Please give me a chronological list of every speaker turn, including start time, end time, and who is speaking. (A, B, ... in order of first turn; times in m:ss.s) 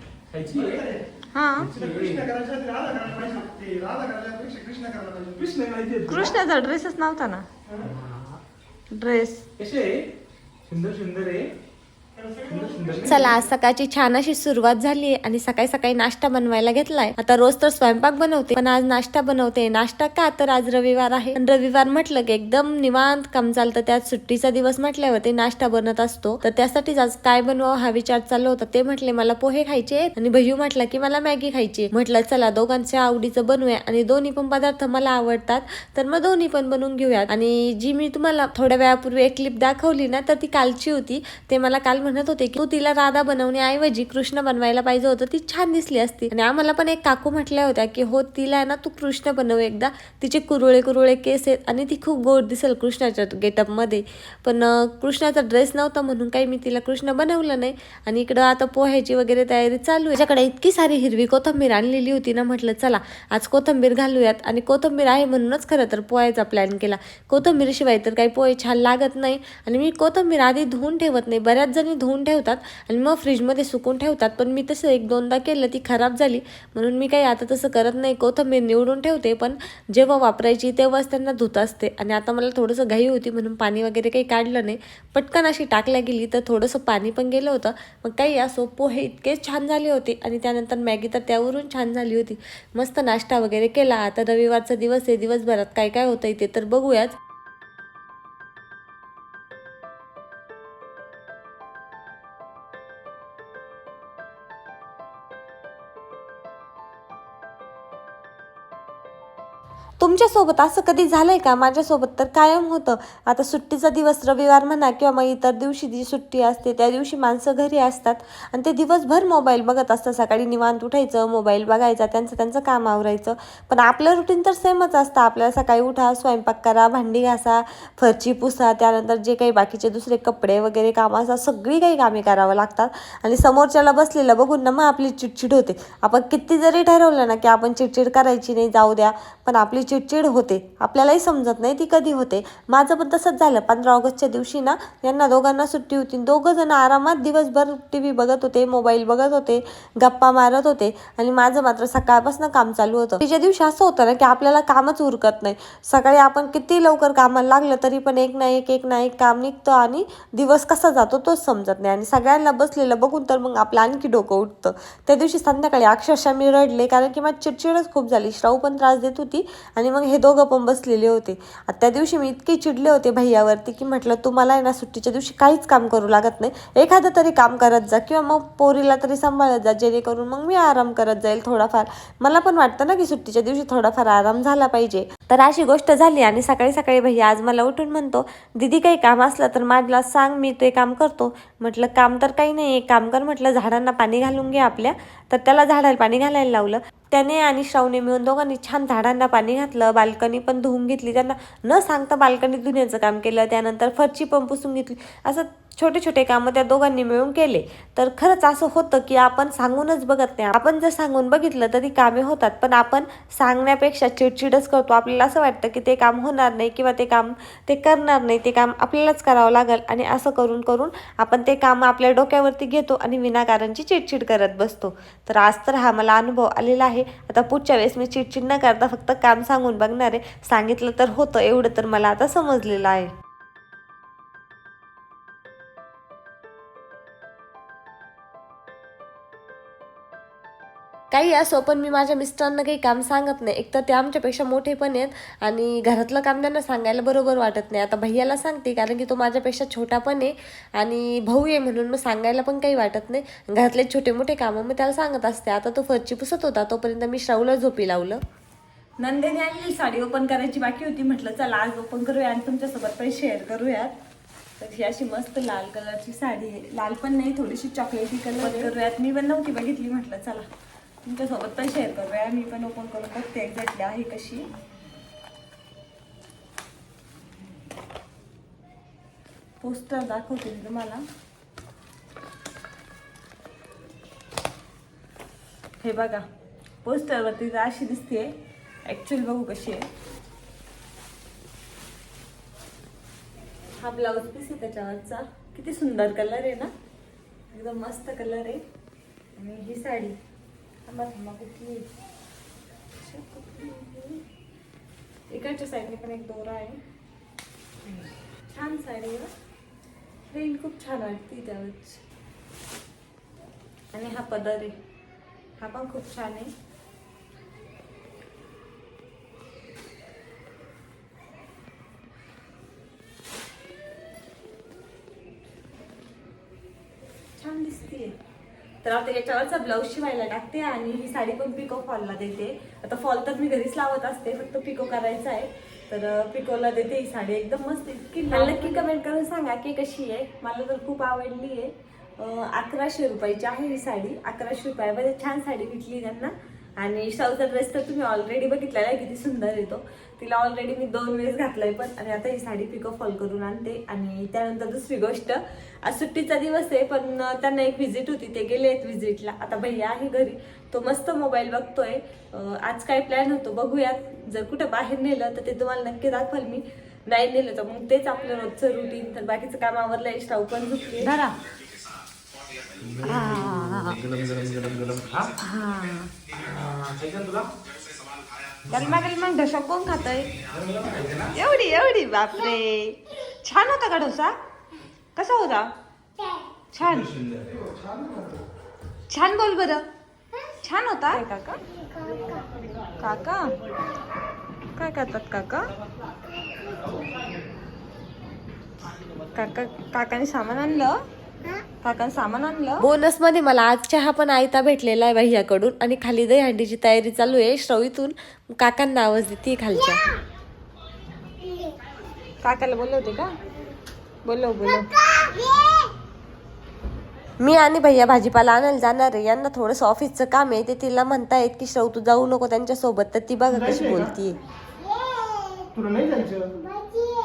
0:00.3-0:00.9 A
0:01.3-0:01.7 B
0:01.6-0:02.3 A
0:01.7-0:05.3 C
0:05.3-0:06.3 A
0:06.1-0:07.5 B
0:07.8-0:08.3 A
0:08.9-0:09.4 B
0:09.6-0:10.0 A
0:10.7-0:11.5 A
0:12.2-0:13.2 C
0:12.5-0:13.3 A
0:13.0-1:37.2 D
1:50.0-3:53.1 D
4:01.1-4:18.2 D
4:19.0-4:23.9 B
4:24.6-4:30.4 B
4:31.0-4:34.5 B
4:39.6-4:41.0 B
4:45.8-4:46.2 B
4:46.8-4:48.3 B
4:48.8-4:49.8 B
4:53.8-4:56.7 B
4:57.5-4:58.6 B
4:59.4-5:00.2 B
5:00.9-5:01.9 B
5:03.0-5:04.2 B
5:05.3-5:06.8 B
5:08.5-5:09.3 B
5:10.3-5:12.0 B
5:13.9-5:14.7 B
5:15.6-5:16.5 B
5:27.4-5:28.1 B
5:28.8-6:11.3 B
6:12.8-6:15.4 A
6:13.1-6:14.0 B
6:15.4-6:16.1 B
6:16.3-6:17.5 A
6:18.7-6:20.3 B
6:20.4-6:21.4 A
6:21.3-6:24.3 B
6:25.2-6:25.7 B
6:26.7-6:27.0 B
6:26.8-6:27.7 A
6:29.1-6:29.8 B
6:30.6-6:31.6 B
6:33.0-6:33.6 B
6:34.8-6:35.7 B
6:39.3-6:41.0 B
6:41.8-6:42.9 B
6:42.8-6:50.0 D
6:52.4-6:53.3 B
6:54.2-6:54.9 B
6:57.4-7:04.4 D
7:03.5-7:04.1 C
7:05.7-7:06.7 C